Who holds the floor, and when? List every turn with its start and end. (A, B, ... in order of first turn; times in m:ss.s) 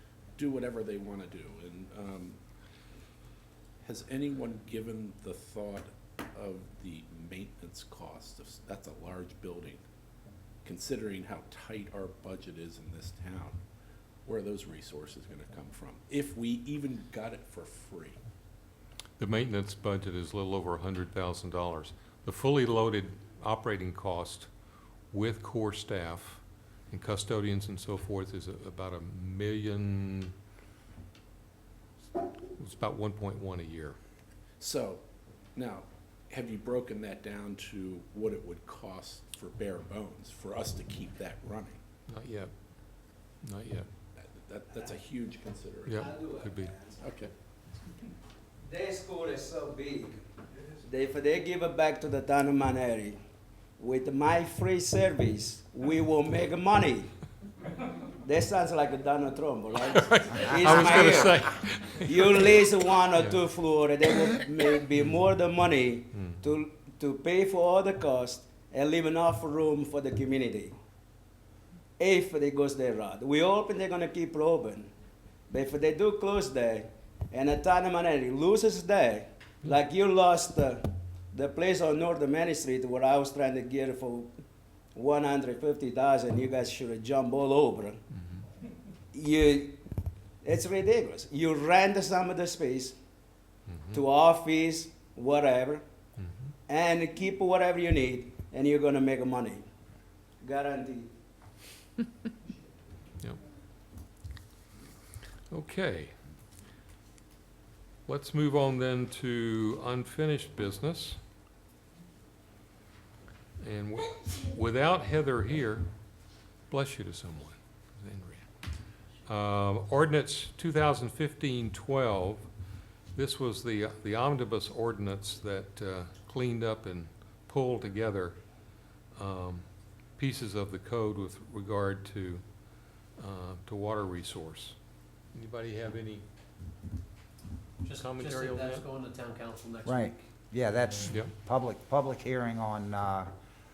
0:00.4-0:02.4 A
0:03.8-0:09.8 A
0:10.6-0:13.6 A
0:14.2-0:18.2 A
0:19.2-0:24.5 B
0:25.1-0:30.3 B
0:32.6-0:34.0 B
0:34.6-0:41.8 A
0:42.1-0:42.5 B
0:43.4-0:43.9 B
0:44.2-0:46.1 A
0:45.8-0:46.7 B
0:45.9-0:47.0 C
0:47.0-0:47.3 A
0:48.6-0:50.2 C
0:50.8-0:53.2 C
0:53.8-0:57.1 C
0:58.2-1:01.5 C
0:59.8-1:03.4 B
1:02.0-1:10.8 C
1:06.1-1:06.4 B
1:12.0-1:14.9 C
1:15.5-1:24.3 C
1:24.9-1:28.0 C
1:29.1-1:29.8 C
1:30.4-1:33.0 C
1:33.7-1:34.0 B
1:33.9-1:35.8 C
1:36.2-1:36.5 B
1:36.7-1:39.6 C
1:40.4-1:41.1 C
1:45.5-1:46.1 B
1:48.0-1:51.2 B
1:53.6-1:55.9 B
1:56.7-1:58.4 B
1:59.2-2:02.5 B
2:03.1-2:08.4 B
2:09.1-2:09.6 B
2:10.2-2:12.4 B
2:13.2-2:14.7 B
2:15.3-2:16.2 B
2:17.8-2:21.2 D
2:17.9-2:18.8 B
2:19.8-2:23.3 E